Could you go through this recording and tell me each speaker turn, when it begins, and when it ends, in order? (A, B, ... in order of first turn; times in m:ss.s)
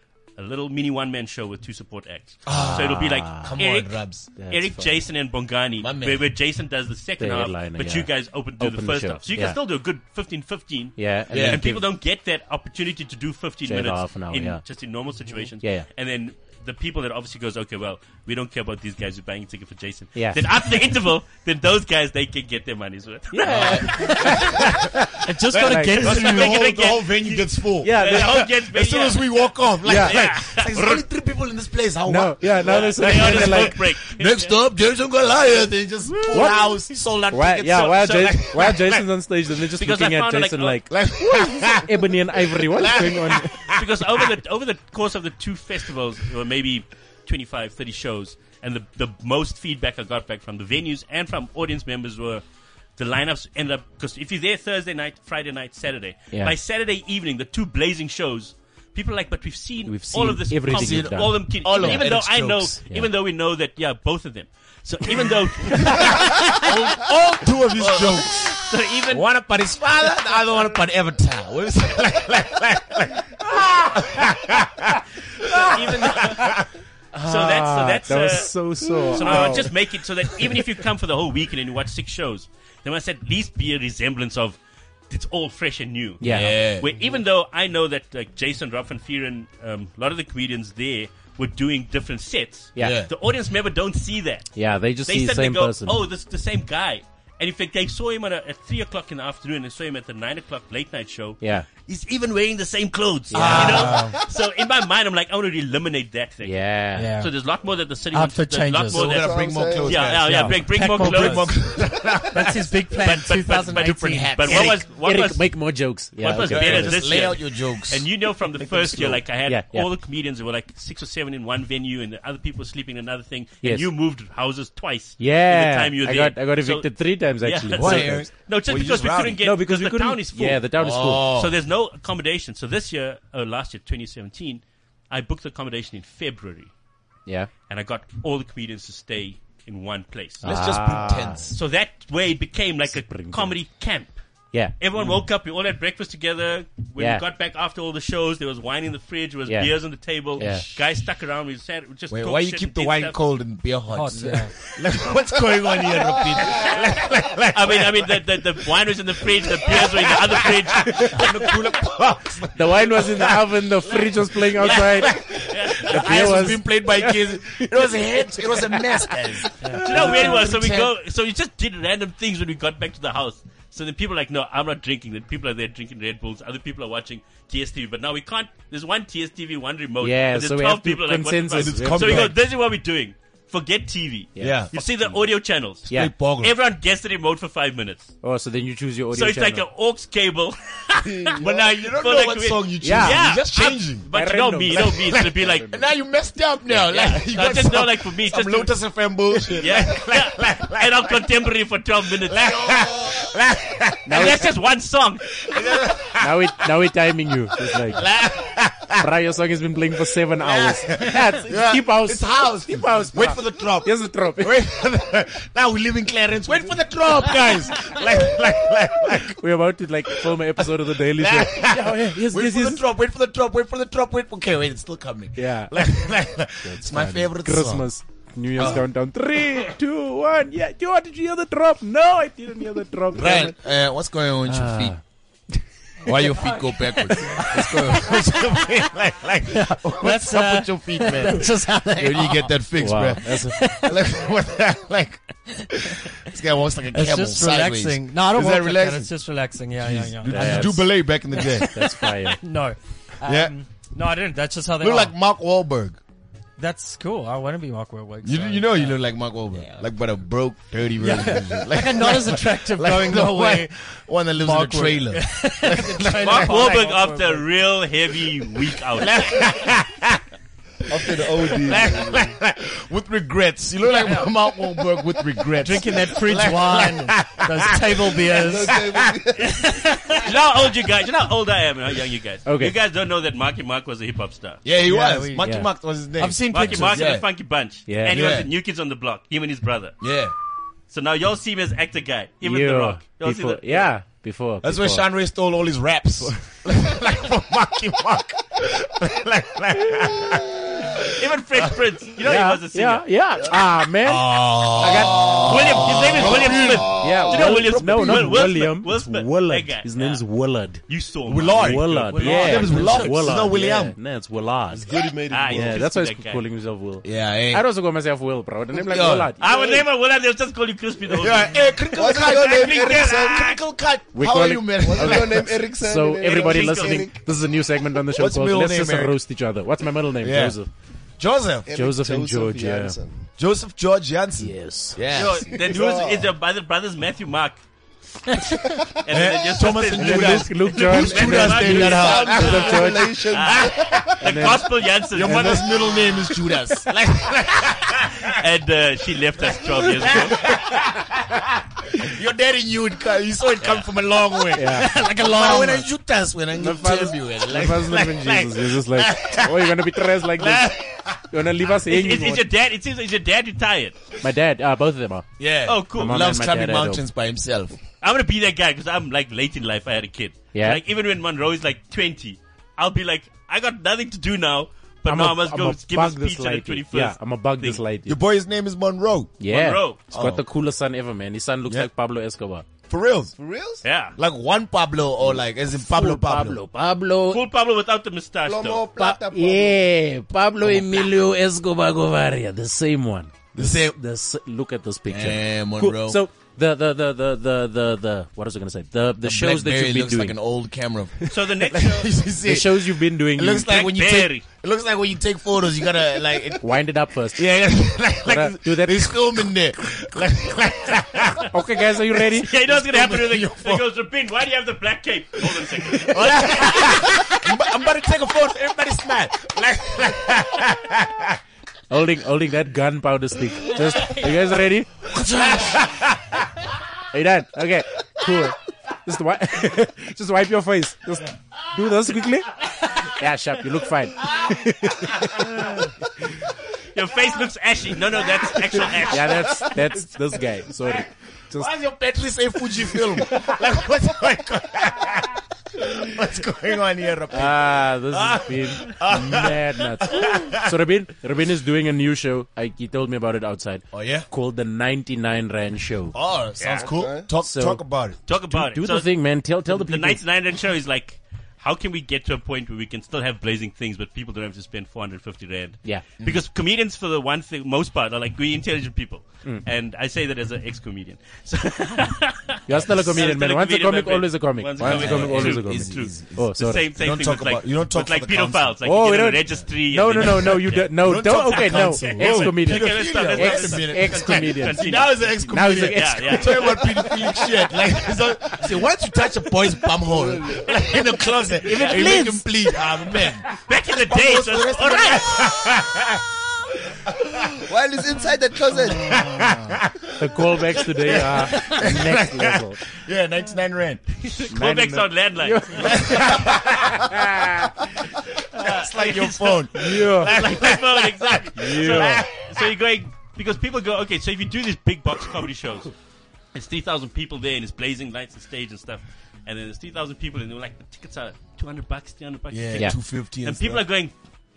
0:00.4-0:24.7 A
0:02.4-0:04.3 B
0:02.5-0:03.6 C
0:04.4-0:05.0 C
0:05.8-0:06.2 B
0:07.2-0:09.6 C
0:11.0-0:11.8 C
0:11.3-0:11.6 B
0:13.6-0:14.6 C
0:15.6-0:15.8 C
0:20.1-0:20.4 C
0:23.3-0:26.0 C
0:23.4-0:39.0 B
0:25.2-0:26.7 D
0:25.9-0:31.0 A
0:27.8-0:28.4 C
0:29.8-0:30.2 C
0:32.0-0:33.8 C
0:32.6-0:34.5 A
0:36.3-0:36.8 C
0:37.3-0:43.6 C
0:37.9-0:38.4 A
0:39.8-0:40.9 A
0:40.9-0:44.4 B
0:43.7-0:52.4 A
0:53.0-1:09.2 A
0:59.8-1:02.2 C
1:00.7-1:02.7 B
1:02.8-1:03.1 C
1:05.2-1:16.7 B
1:15.5-1:16.6 A
1:17.1-1:19.7 C
1:17.2-1:24.6 A
1:19.2-1:19.6 B
1:25.1-1:34.5 A
1:26.2-1:26.6 C
1:26.2-1:26.9 B
1:32.8-1:33.0 C
1:32.8-1:33.1 B
1:34.5-1:36.0 C
1:35.1-1:46.6 A
1:41.4-1:41.7 C
1:43.3-1:43.9 C
1:43.3-1:44.2 B
1:43.5-1:44.2 D
1:46.4-1:47.1 C
1:47.0-1:47.3 D
1:47.2-1:51.6 A
1:48.1-1:49.2 D
1:48.9-1:53.0 B
1:49.0-1:50.2 E
1:50.3-1:50.6 C
1:50.3-1:51.6 D
1:52.3-1:54.7 D
1:53.0-1:55.6 A
1:53.7-1:54.8 B
1:54.5-1:57.0 C
1:56.2-2:16.7 A
1:56.4-1:59.2 B
1:59.4-1:59.9 C
2:03.6-2:03.9 C
2:05.2-2:08.3 C
2:07.7-2:09.4 B
2:09.4-2:11.3 C
2:10.8-2:11.5 B
2:17.7-2:20.5 A
2:20.4-2:21.5 C
2:20.4-2:21.6 B
2:21.5-2:24.2 A
2:22.9-2:23.6 C
2:24.7-2:33.2 A
2:27.0-2:27.2 C
2:29.5-2:29.7 C
2:30.4-2:30.7 C
2:32.1-2:38.4 B
2:33.9-2:34.5 D
2:37.5-2:41.4 A
2:39.2-2:50.9 B
2:42.5-2:45.2 C
2:44.6-2:46.4 A
2:45.8-2:50.5 C
2:49.8-3:08.1 A
3:00.0-3:02.3 C
3:01.5-3:02.4 B
3:04.3-3:05.2 C
3:04.4-3:04.8 B
3:05.9-3:06.5 B
3:08.2-3:09.6 C
3:09.1-3:15.7 A
3:11.0-3:11.6 E
3:11.4-3:14.1 B
3:12.8-3:13.2 C
3:14.1-3:15.8 C
3:14.7-3:21.2 B
3:16.7-3:18.8 A
3:19.5-3:22.9 A
3:22.2-3:24.4 B
3:24.0-3:24.5 C
3:24.1-3:25.5 A
3:25.4-3:26.4 B
3:26.2-3:28.1 C
3:27.9-3:29.1 B
3:29.0-3:34.6 C
3:30.4-3:39.4 B
3:39.3-3:42.8 C
3:40.3-3:47.9 B
3:45.3-3:45.9 C
3:46.6-3:53.6 C
3:48.6-3:48.8 B
3:53.1-3:54.9 B
3:54.4-3:55.0 C
3:56.0-4:09.1 B
3:56.7-3:58.5 D
3:59.5-4:02.5 D
4:02.8-4:03.6 C
4:03.3-4:04.0 D
4:06.9-4:11.7 D
4:09.8-4:11.7 B
4:10.3-4:10.9 C
4:11.6-4:12.4 C
4:12.3-4:15.1 D
4:13.2-4:13.5 B
4:14.8-4:16.0 B
4:16.6-4:19.8 D
4:18.2-4:26.7 B
4:21.0-4:23.7 D
4:24.3-4:27.5 D
4:26.2-4:29.4 A
4:28.9-4:30.2 B
4:30.9-4:32.3 E
4:31.1-4:39.2 B
4:34.0-4:34.3 D
4:35.6-4:38.8 D
4:38.4-4:40.0 E
4:39.4-4:44.6 A
4:42.4-4:42.7 C
4:44.6-4:47.3 B
4:44.8-4:45.6 D
4:45.4-4:45.7 C
4:46.2-4:47.2 D
4:46.5-4:50.0 A
4:47.8-4:48.2 C
4:48.1-4:48.5 B
4:50.0-4:50.3 B
4:50.9-4:53.9 A
4:52.4-4:55.1 C
4:54.6-5:01.1 B
5:01.1-5:03.1 A
5:02.2-5:05.8 C
5:04.0-5:08.4 B
5:05.4-5:10.2 A
5:07.0-5:10.8 C
5:10.9-5:13.3 A
5:11.3-5:14.0 B
5:11.6-5:19.4 C
5:14.7-5:15.8 E
5:15.3-5:16.4 A
5:17.0-5:17.6 B
5:18.7-5:19.3 B
5:19.4-5:23.6 A
5:21.1-5:25.5 B
5:21.9-5:23.5 E
5:24.1-5:30.7 C
5:24.8-5:27.3 E
5:26.2-5:27.1 A
5:28.1-5:29.2 B
5:30.2-5:30.6 B
5:31.2-5:31.7 B
5:31.6-5:33.2 E
5:31.7-5:33.0 C
5:33.4-5:35.8 B
5:34.4-5:35.0 C
5:35.1-5:37.6 A
5:35.4-5:36.3 E
5:39.0-5:46.0 A
5:39.1-5:42.9 B
5:39.9-5:43.3 C
5:41.7-5:44.5 E
5:43.5-5:44.0 B
5:44.2-5:44.7 C
5:45.1-5:48.4 B
5:45.2-5:45.6 C
5:48.3-5:50.4 A
5:49.7-5:59.8 B
5:53.6-5:53.9 A
5:54.5-5:54.9 C
5:54.6-5:55.9 D
5:56.5-6:00.7 C
6:00.3-6:01.2 B
6:01.3-6:02.4 C
6:01.9-6:04.0 A
6:04.2-6:05.3 C
6:05.4-6:07.8 B
6:05.6-6:06.3 A
6:05.9-6:07.0 C
6:08.0-6:17.8 A
6:10.5-6:10.8 C
6:15.0-6:18.2 C
6:18.0-6:19.4 B
6:19.4-6:22.6 C
6:19.5-6:20.0 A
6:20.1-6:20.4 B
6:22.9-6:23.3 B
6:23.4-6:23.8 E
6:23.8-6:24.2 A
6:24.2-6:26.6 B
6:25.2-6:27.4 C
6:27.3-6:28.8 A
6:28.4-6:29.8 E
6:29.0-6:40.4 C
6:30.6-6:31.0 B
6:33.5-6:34.0 B
6:35.1-6:36.2 B
6:39.2-6:46.7 B
6:41.3-6:42.1 A
6:42.4-6:43.7 C
6:43.6-6:44.4 A
6:46.6-6:47.5 C
6:47.3-6:51.5 B
6:48.2-6:49.2 C
6:51.5-6:52.5 C
6:52.3-6:57.4 A
6:52.5-6:53.8 B
6:55.8-7:01.4 B
7:01.9-7:04.9 C
7:05.0-7:06.4 B
7:07.1-7:15.7 C
7:14.3-7:14.5 B
7:16.9-7:19.6 A
7:18.7-7:19.7 B
7:18.9-7:21.7 C
7:20.8-7:30.7 B
7:27.3-7:36.1 C
7:33.9-7:34.3 B
7:36.1-7:38.2 B
7:36.6-7:36.9 A
7:36.8-7:37.3 E
7:37.4-7:40.2 C
7:38.3-8:07.3 A
7:52.6-7:56.8 C
7:52.8-7:53.1 B
7:54.8-7:58.7 B
7:58.8-8:04.8 C
8:01.0-8:16.2 B
8:05.4-8:07.0 C
8:10.1-8:10.7 E
8:11.6-8:12.4 A
8:11.7-8:12.4 C
8:13.5-8:15.4 A
8:17.5-8:19.5 E
8:18.9-8:24.0 B
8:20.2-8:22.8 C
8:24.2-8:26.2 A
8:24.5-8:27.7 C
8:25.8-8:27.2 B
8:28.5-8:35.9 A
8:28.6-8:32.7 B
8:29.7-8:30.3 C
8:31.6-8:32.2 C
8:36.5-8:44.1 A
8:42.5-8:43.8 B